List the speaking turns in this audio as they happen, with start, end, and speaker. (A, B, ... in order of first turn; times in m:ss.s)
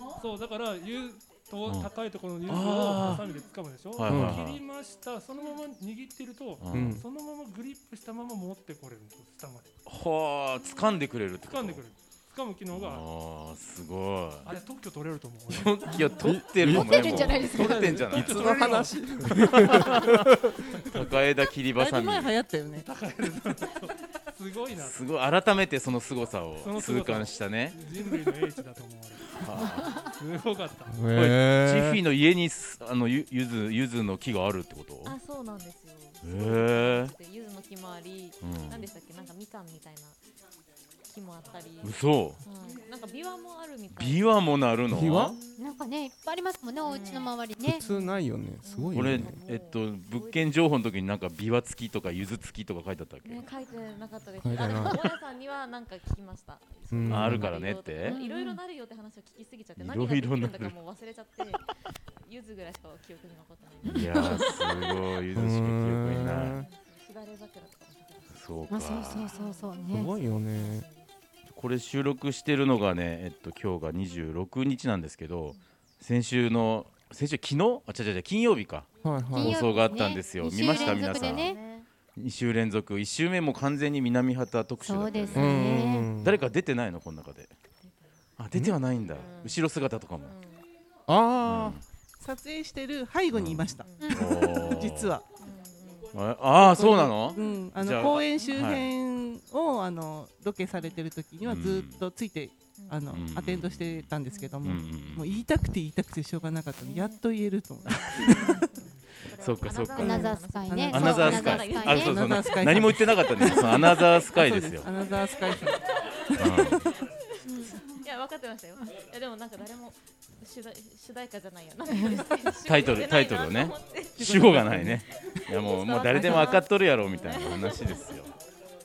0:00.2-0:09.8 A
0:02.5-0:03.2 B
0:04.0-0:04.6 B
0:04.1-0:04.4 C
0:06.6-0:07.0 B
0:06.7-0:07.0 C
0:09.9-0:11.8 B
0:11.4-0:13.0 A
0:12.7-0:14.5 B
0:14.4-0:16.2 A
0:15.5-0:18.5 B
0:16.2-0:17.0 C
0:16.7-0:17.9 D
0:17.5-0:21.1 A
0:17.9-0:20.6 C
0:20.9-0:22.3 B
0:21.8-0:22.9 E
0:22.8-0:25.1 A
0:24.8-0:27.8 B
0:26.6-0:31.0 A
0:29.4-0:30.0 B
0:30.9-0:32.0 C
0:31.2-0:35.1 B
0:35.0-0:40.2 F
0:36.2-0:37.1 B
0:38.4-0:38.8 B
0:41.1-0:44.4 F
0:41.8-0:42.4 B
0:43.9-0:45.3 B
0:44.9-0:45.4 C
0:45.1-0:45.6 F
0:45.6-0:47.9 D
0:46.9-0:47.4 F
0:47.6-0:49.4 C
0:48.6-0:50.6 F
0:48.9-0:53.4 B
0:53.2-1:01.7 F
0:54.4-0:55.0 C
0:56.9-0:57.5 C
0:57.1-0:58.2 B
0:58.1-0:58.6 D
0:59.8-1:00.7 B
1:02.2-1:04.5 F
1:03.8-1:06.6 B
1:04.0-1:04.5 D
1:05.3-1:06.7 C
1:06.6-1:11.1 F
1:08.3-1:09.2 B
1:08.7-1:10.1 D
1:09.9-1:10.9 C
1:11.5-1:18.9 B
1:19.0-1:19.5 C
1:19.3-1:21.6 D
1:19.4-1:21.5 B
1:20.6-1:21.9 F
1:22.2-1:25.5 B
1:24.8-1:26.1 D
1:25.1-1:25.6 F
1:25.3-1:26.4 C
1:26.2-1:27.5 B
1:27.8-1:28.2 F
1:28.4-1:30.3 B
1:29.1-1:29.6 F
1:30.2-1:30.6 F
1:31.1-1:31.8 C
1:31.4-1:31.8 B
1:32.2-1:35.2 E
1:33.3-1:35.2 B
1:33.8-1:34.2 F
1:35.4-1:36.1 F
1:36.1-1:38.9 B
1:36.6-1:48.4 E
1:38.3-1:38.6 F
1:41.4-1:42.0 B
1:42.8-1:43.0 F
1:43.1-1:44.1 B
1:44.3-1:44.6 F
1:44.6-1:45.4 B
1:46.4-1:52.4 F
1:48.0-1:48.3 B
1:49.4-1:50.3 B
1:50.0-1:52.1 D
1:50.1-1:55.8 E
1:50.9-1:54.9 B
1:55.6-1:56.2 F
1:56.4-1:56.8 B
1:56.8-2:04.2 F
2:02.6-2:08.3 B
2:04.2-2:05.0 E
2:05.2-2:08.1 F
2:06.1-2:06.5 E